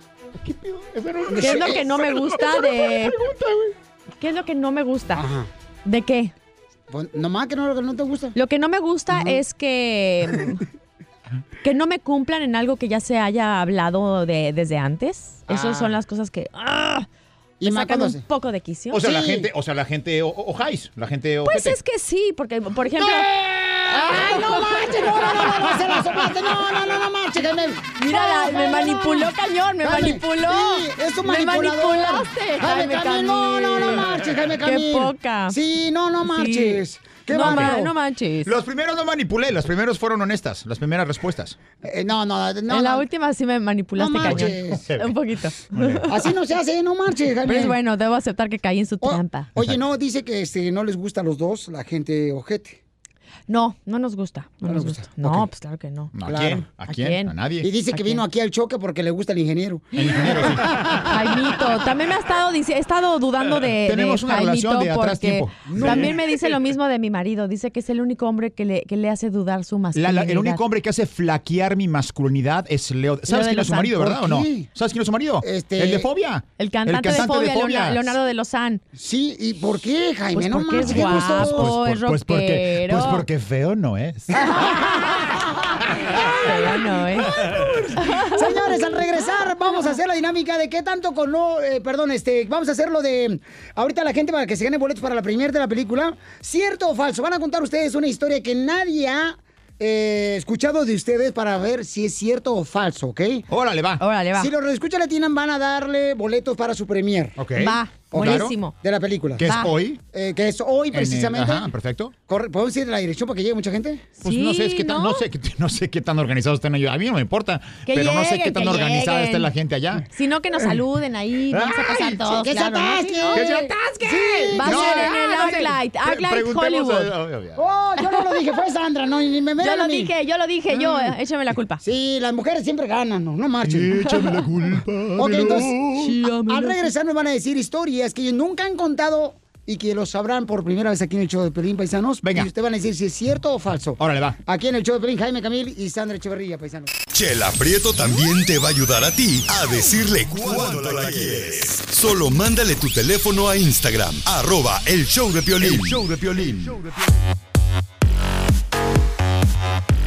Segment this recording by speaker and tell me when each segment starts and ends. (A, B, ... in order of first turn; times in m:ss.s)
0:00.4-0:03.7 A
0:01.3-0:02.0 B
0:01.4-0:03.2 C
0:04.2-0:05.2 C
0:05.1-0:05.5 B
0:05.8-0:06.3 C
0:06.9-0:08.4 B
0:08.4-0:10.6 C
0:09.1-0:09.4 B
0:11.6-0:17.0 C
0:15.5-0:16.0 B
0:17.6-0:18.2 B
0:17.6-0:19.0 C
0:18.9-0:21.8 A
0:19.0-0:19.5 B
0:21.4-0:23.3 C
0:23.0-0:29.3 B
0:23.9-0:25.7 C
0:28.0-0:34.0 C
0:29.8-0:37.9 B
0:34.6-0:35.6 C
0:36.2-0:38.6 C
0:37.4-0:37.8 A
0:38.4-0:41.6 A
0:41.8-0:43.1 B
0:42.7-0:46.1 C
0:44.0-0:44.8 B
0:44.2-0:45.1 A
0:45.7-0:46.0 A
0:46.0-0:47.8 B
0:47.4-0:49.5 C
0:49.0-0:52.8 B
0:53.5-0:56.1 C
0:54.6-0:55.5 B
0:56.1-0:57.7 A
0:56.2-0:56.7 B
0:56.8-0:58.2 C
0:57.6-1:00.6 B
1:00.0-1:00.3 C
1:00.0-1:00.7 A
1:01.0-1:10.6 C
1:03.8-1:06.1 A
1:05.6-1:06.1 B
1:09.9-1:18.1 A
1:13.3-1:14.1 C
1:13.9-1:14.7 B
1:15.4-1:16.1 B
1:16.6-1:18.8 C
1:19.0-1:21.8 B
1:20.3-1:23.3 C
1:20.7-1:24.5 A
1:24.4-1:24.9 C
1:24.4-1:25.4 B
1:26.1-1:43.4 B
1:26.2-1:28.9 C
1:43.5-1:44.0 A
1:44.0-1:44.5 C
1:44.4-1:47.4 B
1:47.4-1:48.6 A
1:47.6-1:48.7 C
1:48.1-1:49.5 B
1:49.4-1:50.0 A
1:49.4-1:49.7 C
1:50.1-1:51.7 B
1:50.9-1:52.1 A
1:52.3-1:54.1 B
1:54.2-1:55.2 C
1:54.2-2:00.0 A
1:57.9-1:59.5 C
2:00.1-2:03.6 C
2:01.5-2:02.3 A
2:02.2-2:05.7 B
2:03.3-2:07.6 A
2:04.5-2:07.2 C
2:07.6-2:10.1 B
2:08.0-2:08.4 C
2:09.6-2:11.8 C
2:10.7-2:11.1 B
2:11.8-2:14.0 B
2:13.6-2:16.1 A
2:14.1-2:14.4 C
2:15.1-2:26.9 B
2:15.9-2:16.9 C
2:22.2-2:22.5 A
2:24.0-2:24.4 A
2:27.1-2:36.8 D